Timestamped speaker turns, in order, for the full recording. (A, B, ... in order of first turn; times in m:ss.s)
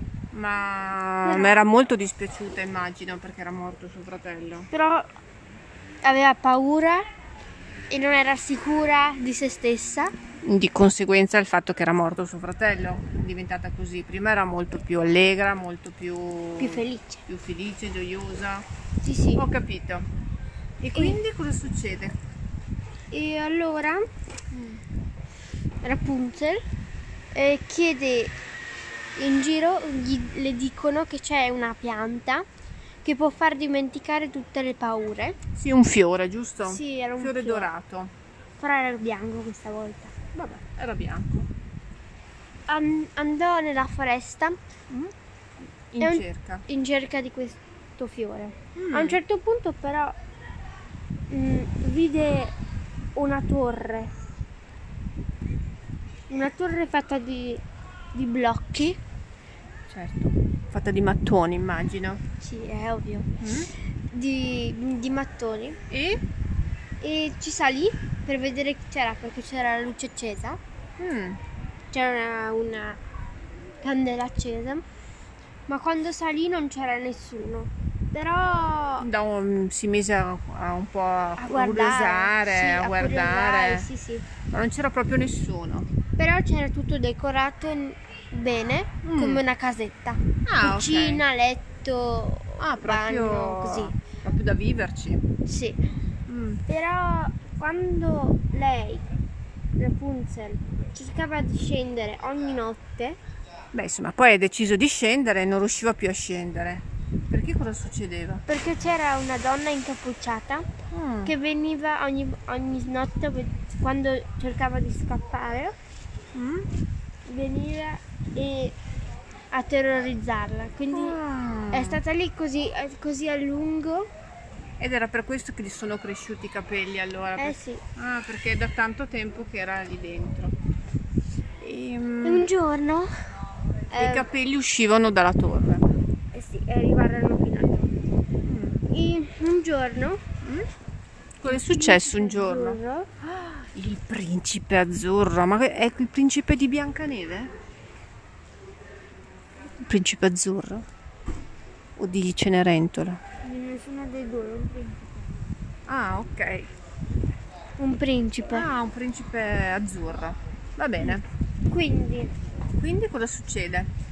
0:00.3-0:04.7 A
0:01.2-0:01.6 B
0:04.7-0:05.1 B
0:06.0-0:07.0 B
0:07.9-0:10.1 B
0:10.4-0:18.7 A
0:16.6-0:17.2 B
0:19.0-0:19.5 B
0:19.4-0:20.1 A
0:20.8-0:22.2 A
0:23.1-0:24.0 B
0:24.5-0:24.8 A
0:25.8-0:26.6 B
0:27.3-0:28.4 B
0:29.2-0:32.5 B
0:33.0-0:35.4 B
0:35.6-0:38.1 A
0:36.6-0:37.7 B
0:38.6-0:40.1 B
0:40.3-0:41.5 A
0:42.7-0:44.6 B
0:45.9-0:46.7 A
0:46.0-0:50.2 B
0:48.8-0:49.2 A
0:51.3-0:52.5 B
0:53.2-0:54.1 B
0:56.3-0:57.6 B
0:58.1-0:59.0 B
0:59.9-1:02.2 A
1:02.4-1:03.4 B
1:03.4-1:03.7 A
1:04.1-1:05.8 B
1:05.9-1:06.2 A
1:07.0-1:10.6 B
1:11.0-1:11.4 A
1:11.9-1:13.0 B
1:13.8-1:14.8 B
1:15.7-1:19.1 B
1:19.0-1:23.9 A
1:21.4-1:24.3 B
1:24.5-1:25.9 A
1:26.2-1:34.0 B
1:29.0-1:29.4 A
1:30.5-1:31.2 A
1:32.6-1:35.2 A
1:35.5-1:35.8 B
1:36.3-1:36.6 A
1:36.7-1:39.1 B
1:39.8-1:43.2 B
1:43.7-1:48.4 A
1:48.5-1:50.7 B
1:50.9-1:51.3 A
1:51.2-1:55.8 B
1:56.3-1:56.7 A
1:57.3-1:58.8 B
1:59.5-2:01.2 B
2:00.9-2:02.0 A
2:01.7-2:04.1 B
2:04.8-2:10.6 A
2:07.4-2:07.8 B
2:11.6-2:12.5 A
2:12.2-2:13.1 B
2:13.9-2:14.3 B
2:14.0-2:15.9 A
2:16.3-2:17.9 B
2:18.4-2:18.8 A
2:18.9-2:20.2 B
2:21.4-2:27.5 A
2:21.5-2:23.1 B
2:29.8-2:30.8 A
2:32.0-2:33.2 A
2:33.4-2:35.3 B
2:35.9-2:36.7 A
2:37.8-2:38.7 B
2:38.5-2:41.2 A
2:41.7-2:42.3 B
2:42.8-2:43.9 A